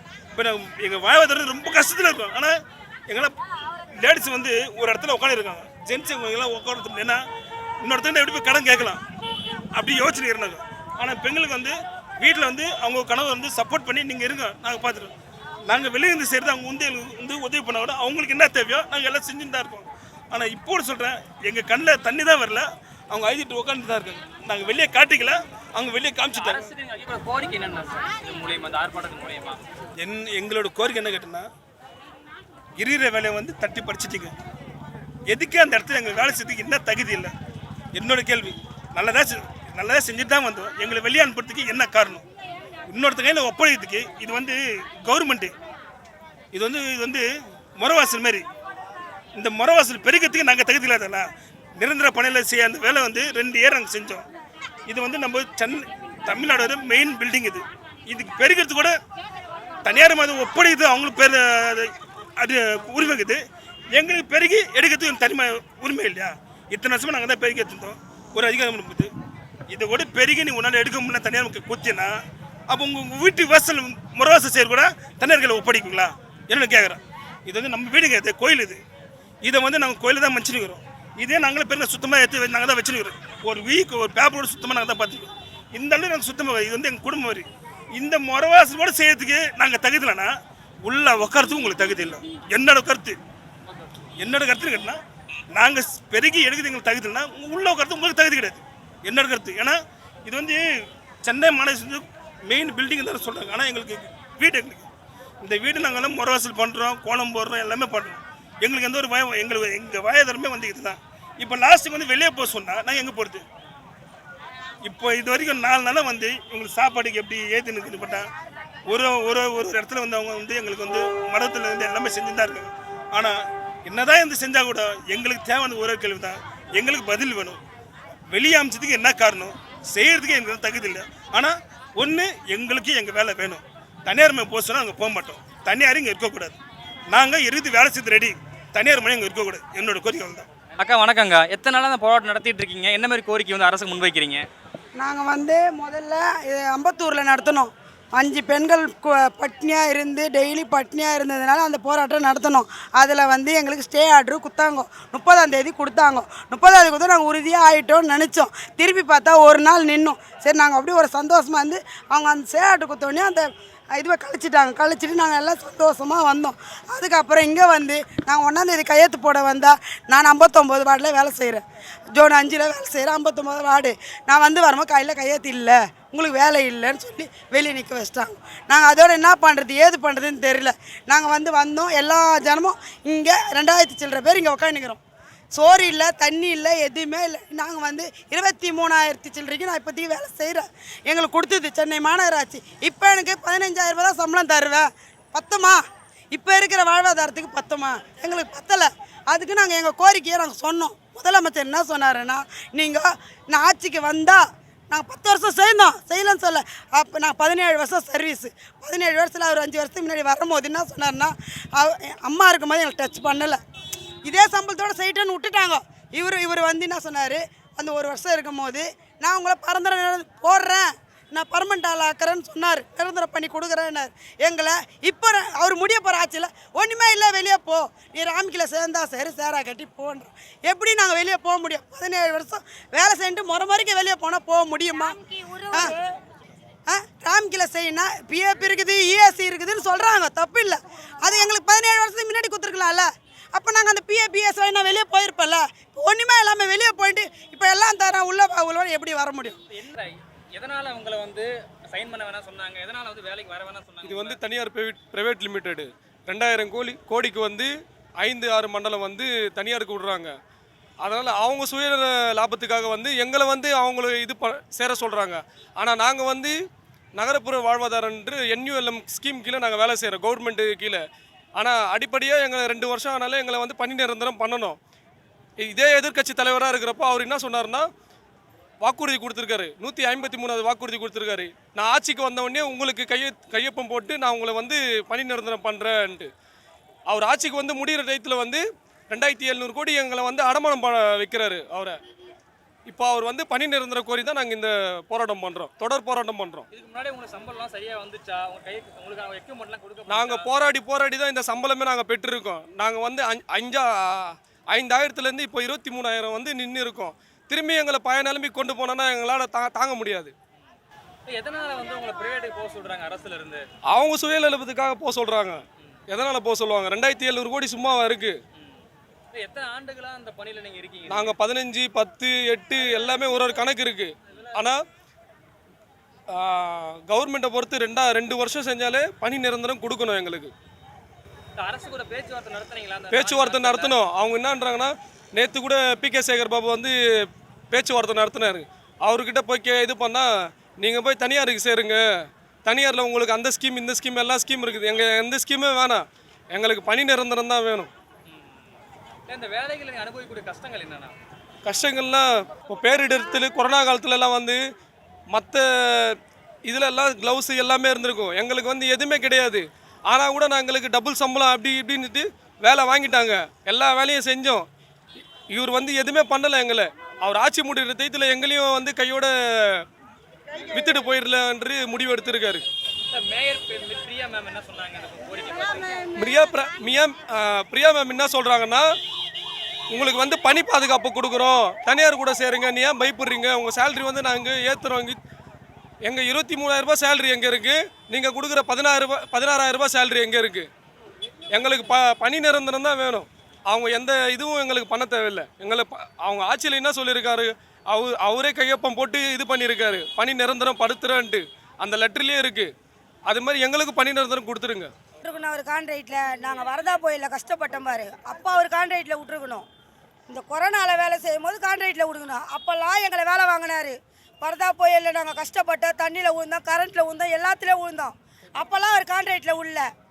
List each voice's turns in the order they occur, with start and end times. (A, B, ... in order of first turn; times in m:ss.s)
0:00.3-0:02.6 A
0:03.1-0:03.4 A
0:04.0-0:07.2 A
0:07.8-0:09.0 A
0:09.8-0:15.1 A
0:15.6-0:26.7 A
0:26.4-0:29.6 B
0:30.0-0:31.5 A
0:32.8-0:34.3 A
0:35.3-0:37.3 A
0:37.9-0:42.2 A
0:42.9-0:45.5 A
0:46.5-0:47.3 A
0:47.8-0:48.4 A
0:49.4-0:54.3 A
0:54.9-0:59.0 A
0:59.8-1:03.4 A
1:03.9-1:09.1 A
1:09.7-1:12.2 A
1:12.7-1:18.8 A
1:19.4-1:33.2 A
1:33.7-1:34.0 B
1:34.2-1:35.0 A
1:35.5-1:40.6 A
1:41.2-1:44.9 A
1:45.4-1:53.4 A
1:54.8-1:58.3 A
1:58.9-2:07.6 A
2:08.3-2:16.6 A
2:17.1-2:20.5 A
2:20.8-2:24.4 B
2:25.0-3:05.0 C
3:05.5-3:33.6 C
3:34.2-3:55.2 C
3:55.7-3:56.0 D
3:55.7-3:55.9 C
3:56.9-4:09.6 C
4:09.7-4:14.4 B
4:14.0-4:17.7 E
4:18.2-4:20.3 E
4:21.0-4:26.6 E
4:27.2-4:31.0 E
4:31.6-4:34.8 E
4:35.6-4:37.9 E
4:38.8-4:46.3 E
4:47.1-4:52.0 E
4:52.9-4:56.6 E
4:56.7-5:00.5 B
5:00.1-5:10.3 E
5:11.3-5:13.6 B
5:13.9-5:18.4 E
5:18.5-5:21.4 B
5:21.1-5:24.8 E
5:22.8-5:23.7 B
5:24.3-5:24.7 B
5:26.3-5:30.5 E
5:31.6-5:34.0 B
5:33.1-5:36.9 E
5:37.7-5:42.0 E
5:42.6-5:47.9 E
5:48.3-5:48.8 B
5:49.3-5:51.1 B
5:51.6-5:54.6 E
5:55.3-6:04.7 E
6:05.5-6:09.8 E
6:10.7-6:12.6 E
6:13.1-6:16.1 B
6:16.1-6:18.9 E
6:19.9-6:25.2 E
6:26.1-6:30.7 E
6:31.5-6:42.7 E
6:43.3-6:44.9 E
6:45.2-6:49.6 D
6:50.3-6:59.9 D